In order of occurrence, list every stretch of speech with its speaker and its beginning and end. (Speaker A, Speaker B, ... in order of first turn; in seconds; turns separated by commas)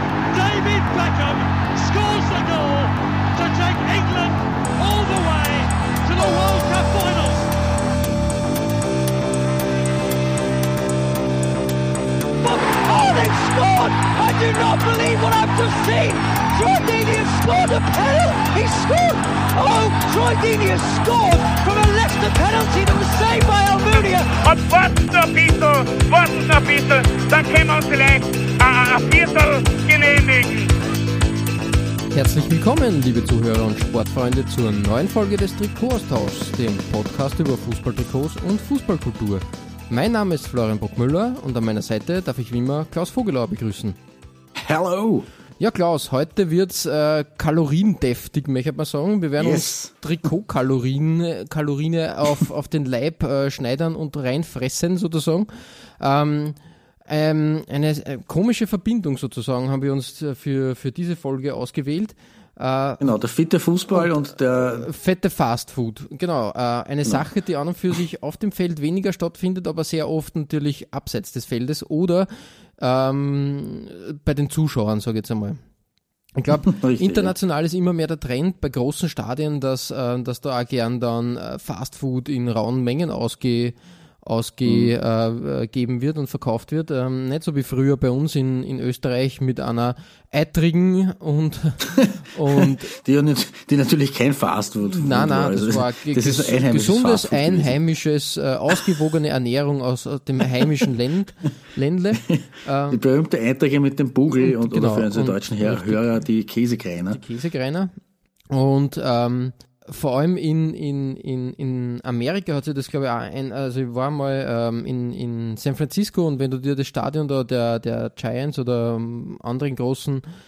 Speaker A: 0.3-7.5, Speaker B: 12.4-24.3, Speaker C: 24.4-30.7, Speaker D: 32.1-44.0, Speaker E: 44.6-45.2, Speaker D: 45.6-63.1, Speaker E: 49.4-49.9, Speaker E: 63.0-64.9, Speaker D: 63.9-75.6, Speaker D: 76.4-93.0, Speaker E: 76.5-77.3, Speaker E: 84.7-84.9, Speaker E: 92.0-97.8, Speaker D: 94.9-103.0, Speaker E: 102.1-107.2, Speaker D: 104.4-106.0, Speaker D: 107.1-107.9, Speaker D: 108.5-120.2